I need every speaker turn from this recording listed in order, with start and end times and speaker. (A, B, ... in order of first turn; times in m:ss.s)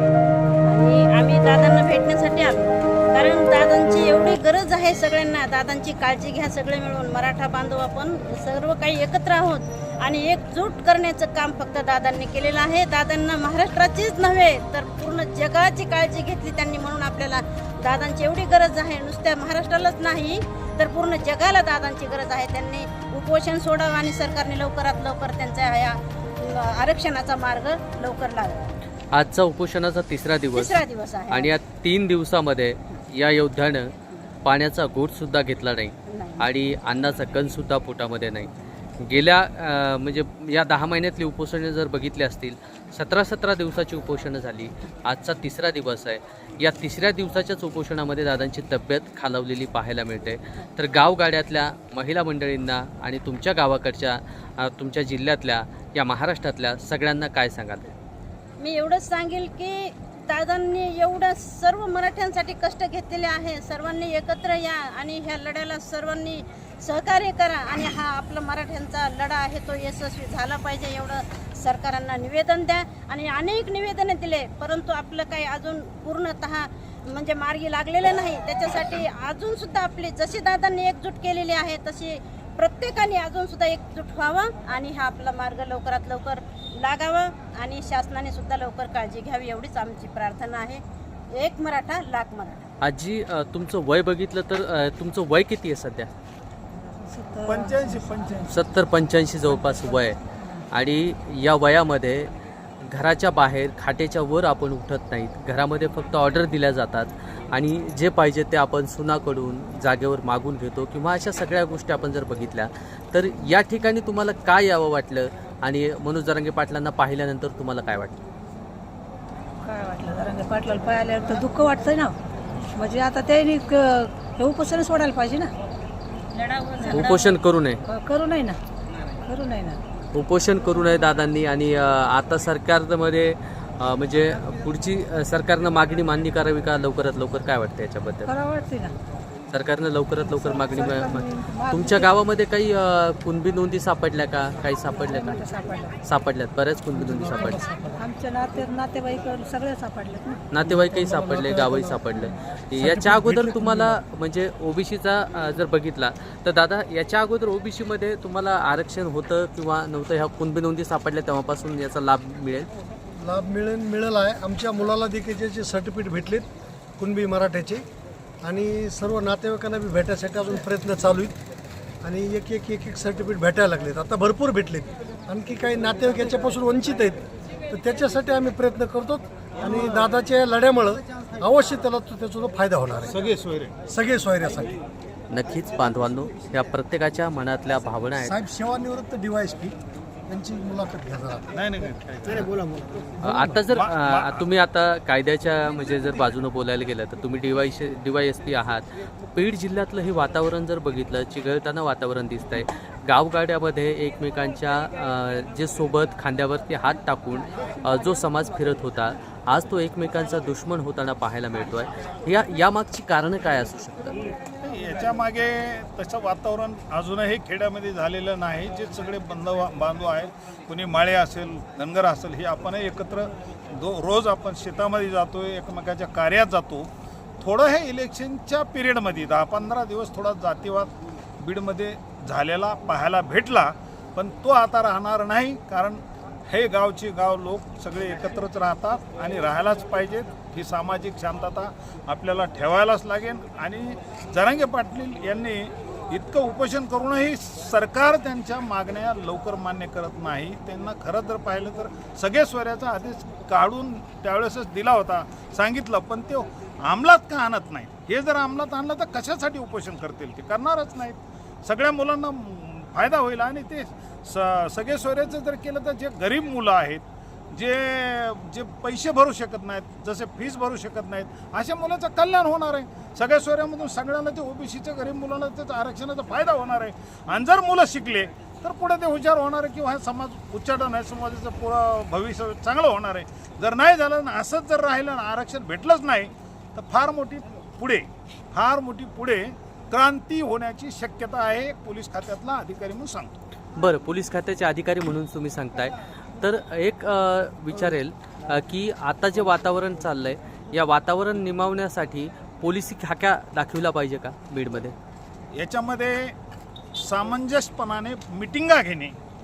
0:00.6-0:28.8 A
0:29.1-0:33.9 B
0:30.5-0:31.5 A
0:34.4-0:57.9 B
0:36.1-0:36.5 A
0:58.6-1:32.7 A
1:32.8-1:36.1 B
1:36.8-1:38.4 C
1:37.4-1:38.5 D
1:38.5-1:40.2 B
1:40.7-1:42.3 B
1:42.8-1:58.2 B
1:59.6-2:02.2 C
2:02.7-2:05.5 C
2:06.3-2:07.3 A
2:06.8-2:07.1 C
2:06.9-2:07.8 B
2:07.9-2:08.6 C
2:09.2-2:09.8 C
2:10.1-2:18.3 B
2:18.2-2:19.0 C
2:19.5-2:27.7 B
2:20.5-2:22.1 C
2:25.0-2:26.0 C
2:26.9-2:28.0 E
2:28.0-2:30.5 C
2:30.5-2:42.7 B
2:30.6-2:32.1 E
2:32.8-2:34.0 E
2:43.2-2:46.5 E
2:47.0-2:47.8 E
2:48.4-2:51.4 E
2:52.0-3:03.2 E
3:03.1-3:03.8 D
3:03.9-3:04.8 E
3:05.3-3:08.4 B
3:08.2-3:09.8 E
3:10.3-3:11.4 E
3:11.5-3:12.5 D
3:12.8-3:13.6 E
3:13.2-3:34.2 B
3:13.7-3:14.5 D
3:34.6-3:46.9 D
3:47.4-4:53.3 D
4:53.8-5:04.9 B
5:05.5-5:06.3 D
5:06.9-5:09.1 D